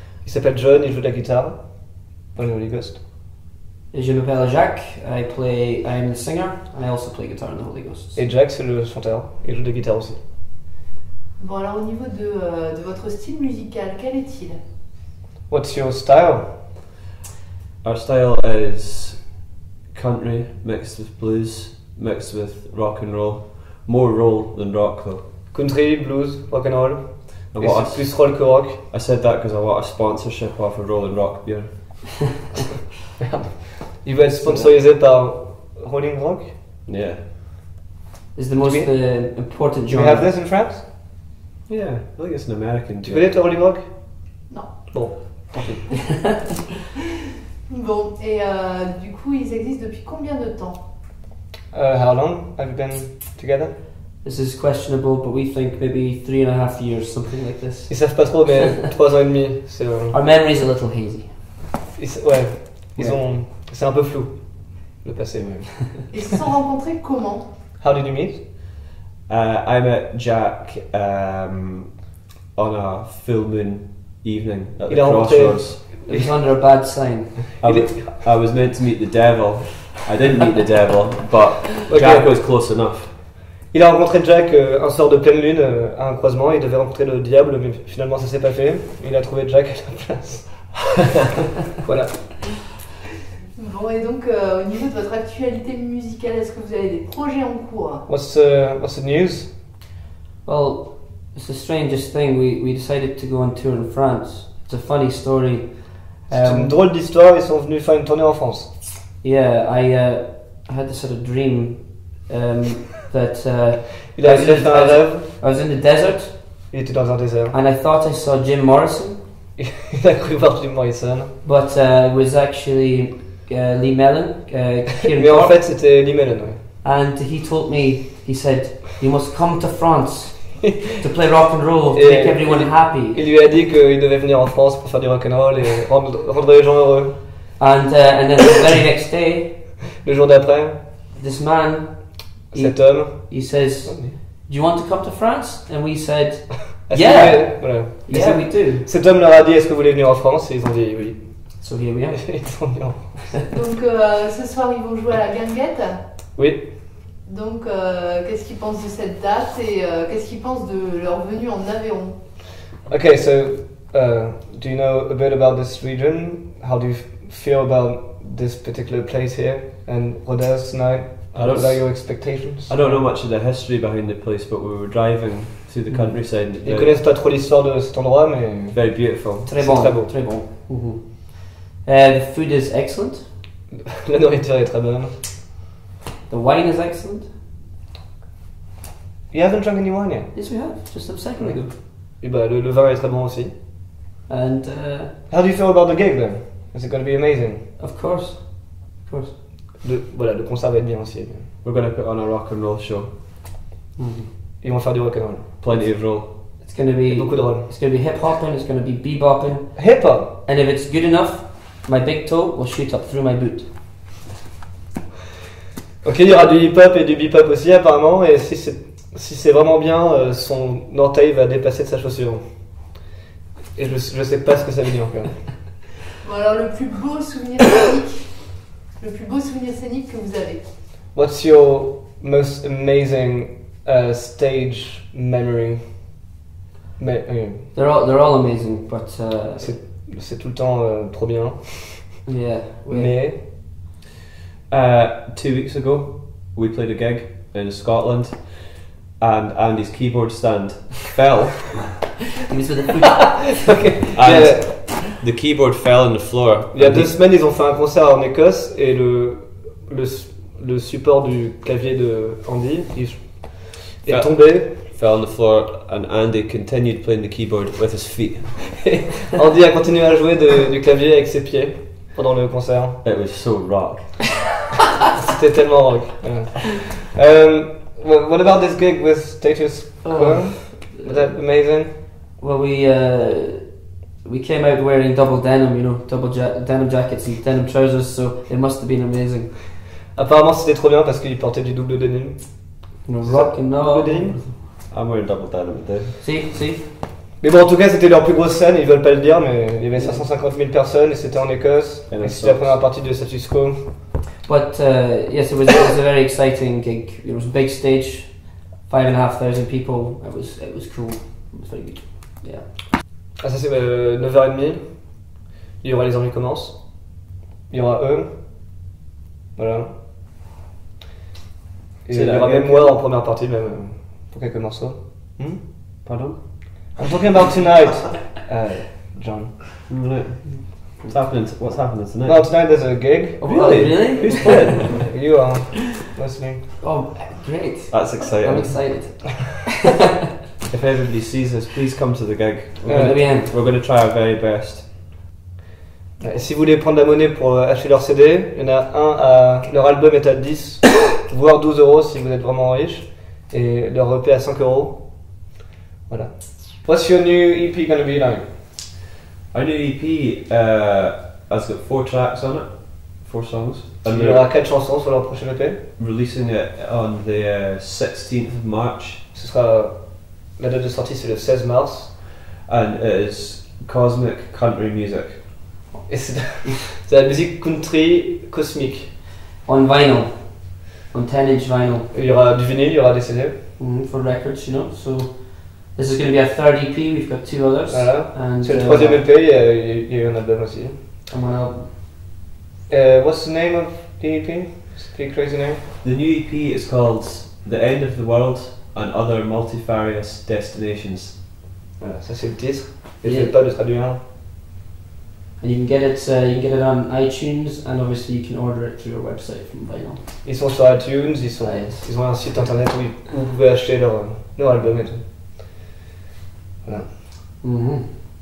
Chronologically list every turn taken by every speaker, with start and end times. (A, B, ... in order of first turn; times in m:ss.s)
0:00.2-0:03.0 A
0:03.9-0:08.2 B
0:08.2-0:10.2 A
0:11.4-0:14.6 C
0:15.5-0:16.6 A
0:17.8-0:25.2 D
0:25.5-0:28.8 A
0:27.5-0:32.3 D
0:33.2-0:36.6 A
0:34.4-0:34.7 B
0:36.9-0:37.2 D
0:38.4-0:40.3 B
0:38.6-0:38.9 A
0:39.9-0:40.9 A
0:41.7-0:43.3 D
0:43.0-0:44.4 A
0:44.5-0:45.5 C
0:44.9-0:46.1 A
0:47.7-0:50.9 C
0:51.7-0:53.7 A
0:54.2-0:58.6 B
0:57.9-1:00.2 A
1:00.1-1:01.4 B
1:02.0-1:06.2 A
1:03.0-1:03.2 B
1:06.1-1:07.5 C
1:07.8-1:08.5 A
1:09.3-1:15.8 D
1:14.9-1:16.3 A
1:16.1-1:17.4 B
1:17.6-1:18.2 A
1:17.6-1:23.1 D
1:21.9-1:22.5 A
1:23.7-1:30.9 A
1:31.8-1:32.6 A
1:33.6-1:38.0 C
1:38.1-1:39.5 A
1:40.4-1:46.8 B
1:46.3-1:48.7 A
1:49.2-1:56.7 B
1:54.1-1:55.3 A
1:56.7-1:57.6 A
1:57.5-1:59.2 B
1:59.6-2:01.4 A
2:01.4-2:05.6 B
2:05.2-2:06.6 A
2:06.8-2:13.2 B
2:11.9-2:17.4 A
2:17.6-2:19.6 B
2:20.0-2:20.8 A
2:21.2-2:28.9 B
2:22.5-2:24.2 A
2:26.8-2:33.4 A
2:31.6-2:32.8 B
2:33.5-2:36.1 C
2:36.3-2:37.0 A
2:37.2-2:42.2 C
2:42.9-2:53.0 A
2:51.3-2:56.9 D
2:55.9-2:56.2 B
2:56.5-3:00.1 A
2:58.7-2:59.5 D
2:59.5-3:03.3 B
3:04.0-3:05.2 A
3:06.3-3:07.3 B
3:09.3-3:10.5 A
3:10.3-3:11.8 B
3:11.4-3:13.5 A
3:14.3-3:15.1 B
3:15.3-3:17.7 A
3:17.8-3:19.4 B
3:19.8-3:21.5 A
3:21.6-3:23.1 D
3:24.0-3:24.3 B
3:24.6-3:25.7 A
3:25.6-3:26.4 D
3:26.3-3:33.7 B
3:27.1-3:27.7 A
3:29.8-3:30.4 A
3:36.0-3:43.0 A
3:43.7-3:45.9 A
3:46.2-3:50.6 C
3:51.1-3:56.2 A
3:57.0-3:57.7 A
3:57.7-3:59.7 B
3:59.6-4:02.2 A
4:02.3-4:03.2 B
4:02.9-4:03.4 A
4:04.7-4:12.0 D
4:12.5-4:14.9 B
4:13.7-4:15.0 A
4:14.2-4:17.1 D
4:16.7-4:24.7 A
4:24.1-4:28.9 D
4:29.3-4:33.0 A
4:33.0-4:34.2 D
4:35.1-4:42.0 A
4:40.0-4:41.4 B
4:42.4-4:49.6 B
4:50.1-4:54.5 A
4:53.1-4:54.4 B
4:54.9-4:56.2 D
4:56.2-4:56.8 B
4:57.4-5:03.9 A
4:59.9-5:00.2 B
5:02.1-5:02.8 D
5:04.4-5:12.7 B
5:13.4-5:18.8 A
5:19.6-5:20.0 A
5:22.0-5:25.7 A
5:22.1-5:23.0 D
5:26.0-5:26.4 D
5:27.0-5:29.7 A
5:29.9-5:32.5 D
5:30.5-5:31.1 B
5:32.2-5:33.7 A
5:33.4-5:35.0 B
5:33.4-5:35.0 D
5:34.9-5:36.7 A
5:36.8-5:39.7 B
5:37.9-5:39.0 D
5:40.7-5:44.9 D
5:42.8-5:43.4 A
5:42.9-5:43.5 B
5:46.2-5:55.4 A
5:56.1-5:58.5 A
5:59.5-6:04.4 D
6:04.0-6:05.9 A
6:06.0-6:09.2 D
6:09.3-6:12.2 A
6:12.6-6:15.4 D
6:16.1-6:19.2 A
6:19.6-6:22.1 B
6:22.1-6:23.6 A
6:23.8-6:29.2 B
6:27.9-6:31.0 A
6:31.3-6:31.9 B
6:32.9-6:35.8 A
6:36.0-6:41.4 D
6:42.0-6:44.2 A
6:43.2-6:43.5 B
6:45.6-6:50.2 B
6:50.4-6:55.6 A
6:51.6-6:52.7 B
6:56.8-6:57.2 A
6:57.6-6:58.2 B